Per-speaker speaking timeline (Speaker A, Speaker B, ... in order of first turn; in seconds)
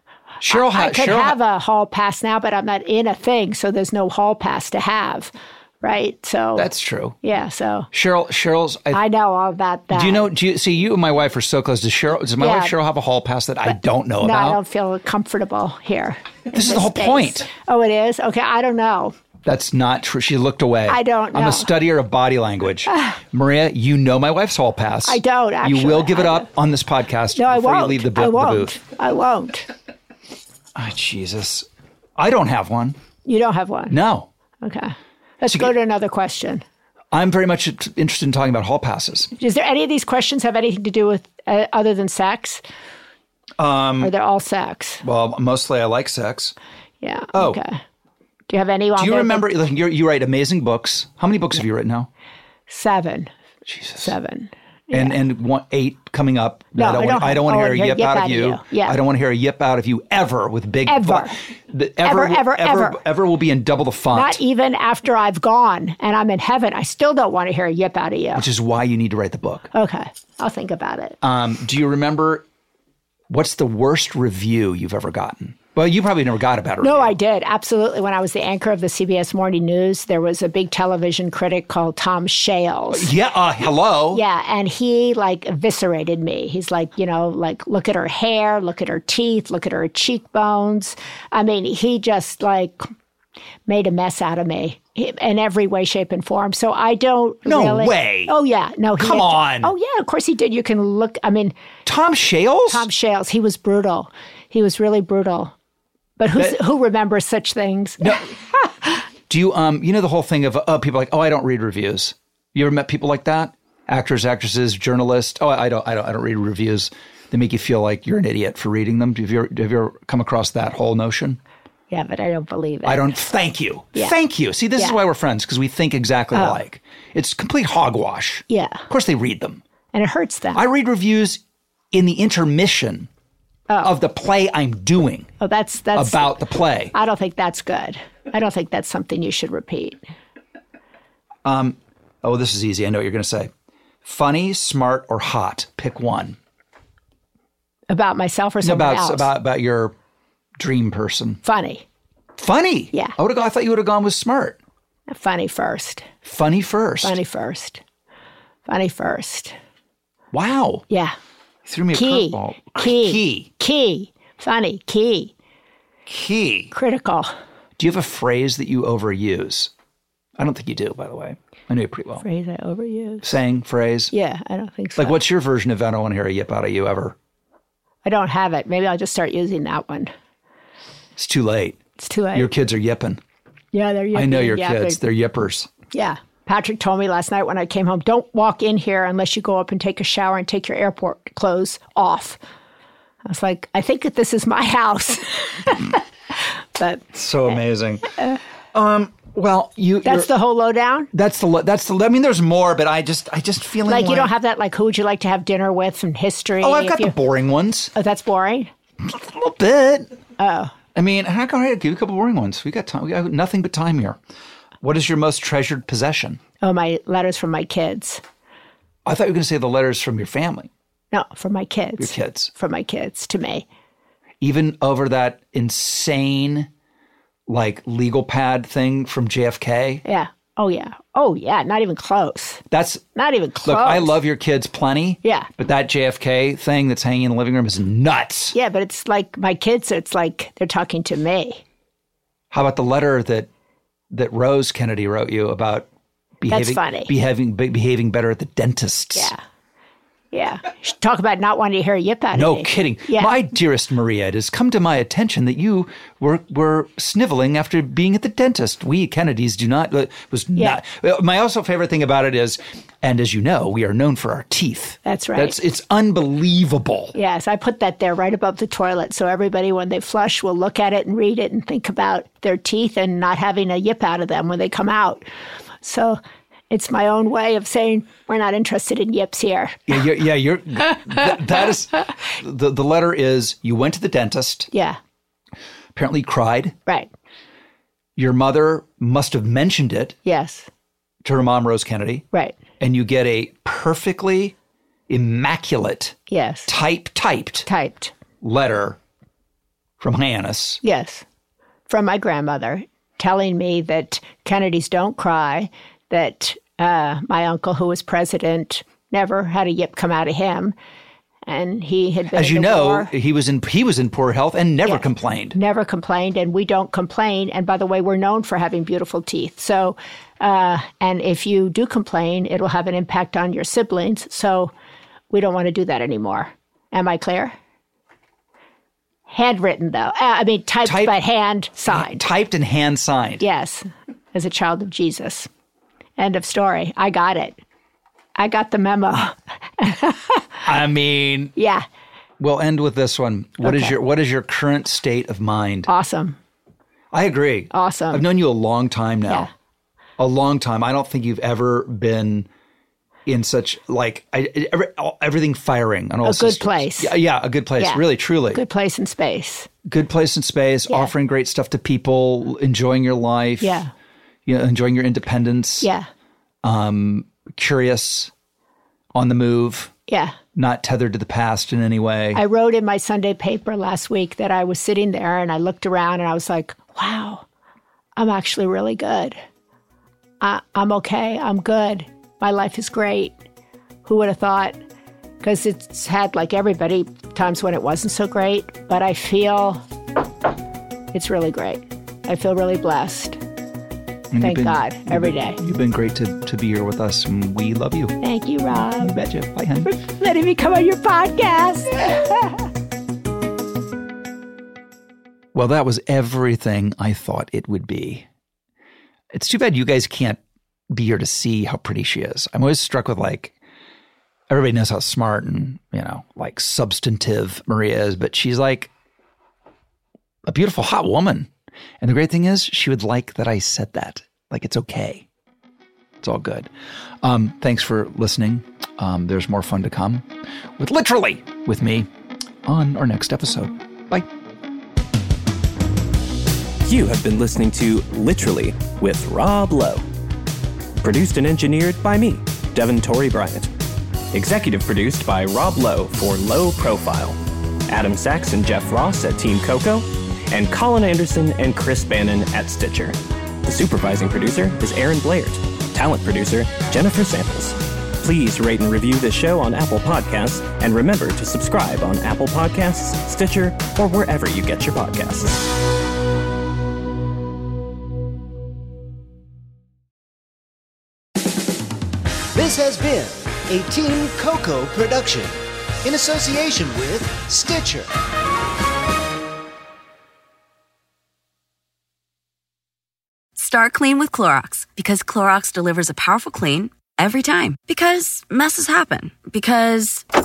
Speaker A: 0.4-1.4, 6.5-7.2, 7.9-9.0, 9.9-14.6, 16.5-17.5, 19.4-28.8, 30.8-31.6, 32.2-33.0, 33.9-34.3, 35.4-35.7, 37.1-39.3, 43.6-44.1, 45.0-46.5, 47.3-47.6, 49.0-52.1, 53.7-54.1, 54.9-64.4, 68.3-69.7, 71.2-72.4, 73.3-77.1, 82.9-84.2, 97.4-98.3, 99.0-99.7, 101.8-102.8, 109.3-121.4, 122.8-129.6, 130.5-131.4, 131.9-133.1, 133.8-135.3, 135.9-136.9, 141.4-143.5, 144.0-146.4, 148.6-149.9, 150.6-151.4, 152.4-154.6, 156.2-157.2, 160.3-160.8, 161.7-163.5, 166.1-166.7, 167.8-169.7, 170.4-172.2, 173.2-174.1, 175.0-177.1, 181.2-181.8, 182.3-183.2, 184.1-185.7, 197.1-198.1, 198.7-200.3, 201.1-204.3, 206.6-207.9, 209.0-210.2, 210.9-214.2, 214.8-216.4, 219.1-220.7, 222.0-222.5, 224.4-226.7, 227.5-230.0, 232.7-233.0, 233.6-238.5, 242.5-243.5, 244.1-245.9, 246.4-249.3, 252.3-267.1, 279.9-284.7, 285.9-286.8, 288.2-290.2, 291.2-292.2, 292.8-294.5, 295.1-297.7, 298.4-299.0, 300.0-300.8, 312.3-315.6, 330.8-331.1, 331.9-333.4, 340.6-341.5, 342.4-345.9, 347.1-349.5, 350.2-352.5, 353.2-358.6, 359.9-363.8, 364.4-365.9, 366.6-368.3, 369.1-369.9, 370.5-372.4, 394.3-398.1, 398.7-399.9, 405.5-408.2, 409.3-410.4, 410.9-413.5, 414.5-418.9, 420.4-421.5, 422.0-425.3, 426.2-426.7, 427.2-430.3, 430.8-432.1, 432.6-434.2
Speaker B: 0.5-6.7, 7.2-7.9, 8.9-10.3, 12.4-12.7, 13.6-19.2, 20.9-21.7, 22.9-23.1, 25.0-26.5, 27.3-29.7, 33.2-34.0, 34.6-36.6, 39.3-42.6, 44.0-45.0, 47.0-47.8, 48.5-49.5, 52.7-53.3, 54.0-55.2, 56.8-59.0, 60.9-61.4, 62.0-63.0, 64.1-68.5, 69.7-71.2, 76.8-83.1, 84.1-92.9, 93.7-101.5, 102.7-105.5, 106.2-108.9, 121.9-123.1, 126.3-126.6, 128.5-128.8, 129.9-130.6, 133.7-133.9, 135.4-136.4, 136.9-140.0, 147.9-149.3, 151.4-151.8, 155.1-156.1, 157.0-157.8, 158.7-159.6, 160.9-161.2, 161.9-165.3, 166.7-167.3, 172.2-173.4, 174.1-175.2, 178.0-180.1, 182.0-182.5, 183.7-185.0, 185.9-192.4, 193.2-198.4, 200.0-201.1, 203.9-207.1, 207.9-208.7, 210.4-210.7, 216.6-218.2, 221.1-223.7, 230.0-232.6, 233.1-234.2, 235.2-235.5, 238.5-241.6, 246.5-247.1, 250.3-253.3, 260.6-260.8, 265.0-265.6, 267.1-275.2, 275.8-276.2, 276.7-280.0, 284.7-285.0, 286.9-287.1, 290.2-290.7, 292.3-292.6, 296.3-296.7, 297.6-298.1, 300.8-301.2, 301.9-310.7, 311.4-313.1, 314.8-324.7, 325.3-327.6, 329.3-332.2, 333.4-335.5, 336.2-337.6, 338.4-340.7, 341.6-341.9, 343.6-343.9, 345.9-346.4, 347.7-348.2, 356.2-357.1, 357.8-359.7, 363.6-363.9, 365.8-366.1, 370.1-370.4, 372.3-377.4, 378.1-379.4, 380.4-383.3, 384.0-384.8, 385.4-389.8, 391.1-393.4, 394.4-395.6, 398.2-399.2, 399.8-402.6
Speaker C: 436.8-440.0, 441.0-443.7, 444.3-447.4, 447.9-465.6
Speaker D: 472.5-478.1
Speaker E: 483.6-490.2